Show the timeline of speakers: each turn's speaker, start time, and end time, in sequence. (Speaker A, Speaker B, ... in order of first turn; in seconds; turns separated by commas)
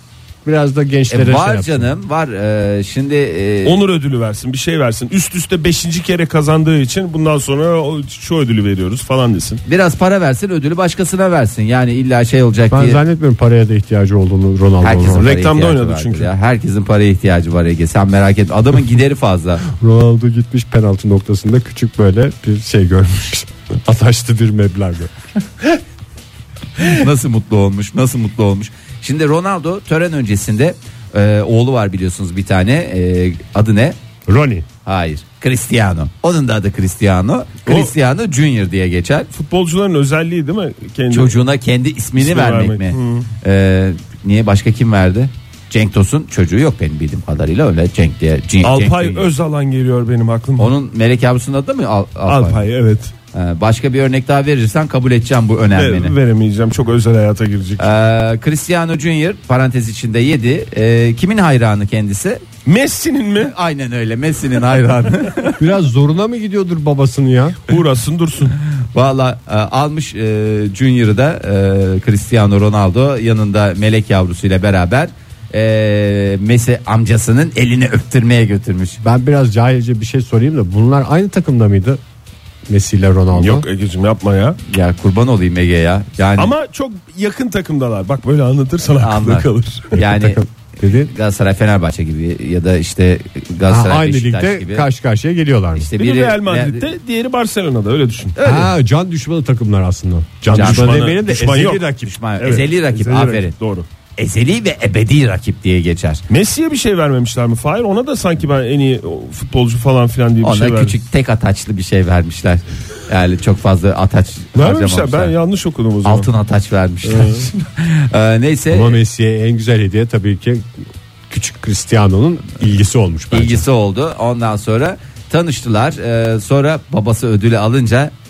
Speaker A: 0.4-1.9, Speaker B: 1.1-3.8, Speaker C: 3.6-9.6, Speaker B: 9.7-13.0, Speaker A: 12.7-15.2, Speaker B: 14.8-19.6, Speaker C: 15.1-16.3, Speaker A: 19.7-25.2, Speaker B: 26.8-34.0, Speaker A: 34.3-34.6, Speaker B: 34.8-39.3, Speaker C: 37.6-37.9, Speaker C: 39.3-41.4, Speaker B: 41.1-49.3, Speaker C: 42.1-43.3, Speaker C: 48.6-50.7, Speaker B: 50.6-52.6, Speaker C: 52.3-53.1, Speaker B: 53.3-56.1, Speaker C: 55.7-57.9, Speaker B: 57.8-62.4, Speaker C: 62.6-63.5, Speaker B: 63.4-65.6, Speaker A: 65.6-67.6, Speaker C: 67.7-68.5, Speaker B: 68.9-79.0, Speaker A: 79.0-82.0, Speaker A: 82.7-83.7, Speaker C: 83.3-84.6, Speaker B: 84.7-86.5, Speaker C: 86.4-89.9, Speaker B: 89.0-90.4, Speaker A: 90.0-91.1, Speaker B: 91.0-94.8, Speaker A: 93.7-95.9, Speaker B: 95.8-96.9, Speaker C: 96.0-98.4, Speaker B: 98.4-98.7, Speaker A: 98.4-102.1, Speaker B: 100.5-101.2, Speaker C: 100.5-101.8, Speaker B: 102.0-103.5, Speaker C: 102.4-103.8, Speaker B: 104.2-106.2, Speaker C: 106.3-111.0, Speaker B: 110.4-115.3, Speaker C: 114.5-116.3, Speaker B: 116.0-119.0, Speaker C: 117.0-117.4, Speaker A: 118.7-123.6, Speaker B: 123.3-128.1